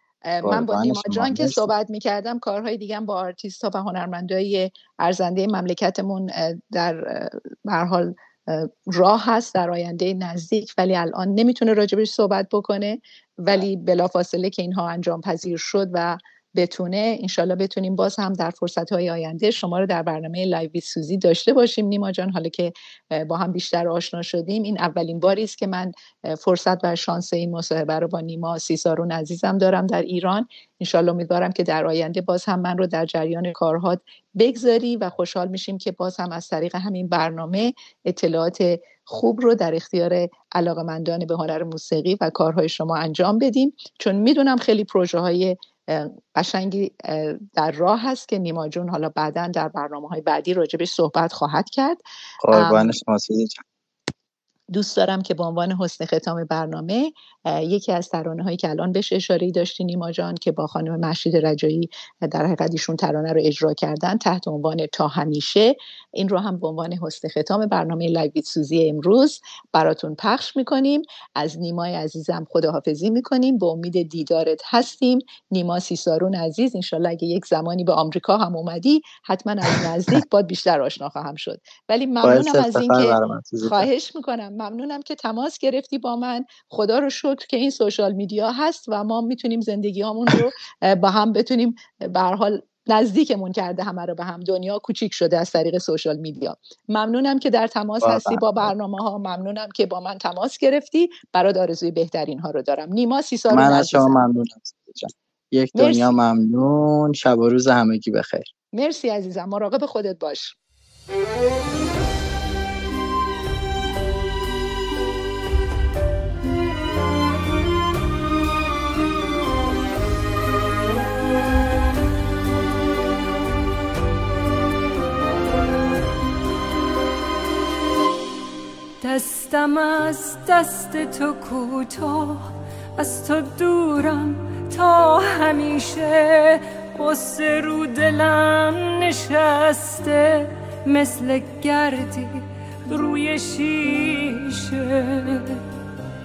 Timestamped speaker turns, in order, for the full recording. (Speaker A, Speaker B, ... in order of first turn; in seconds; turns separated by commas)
Speaker A: 0.2-53.0, Speaker B: 0.4-1.7, Speaker B: 52.4-53.6, Speaker A: 54.7-104.3, Speaker B: 82.2-83.9, Speaker B: 98.0-98.5, Speaker B: 103.5-108.5, Speaker A: 105.7-106.1, Speaker A: 108.7-110.6, Speaker C: 129.0-145.6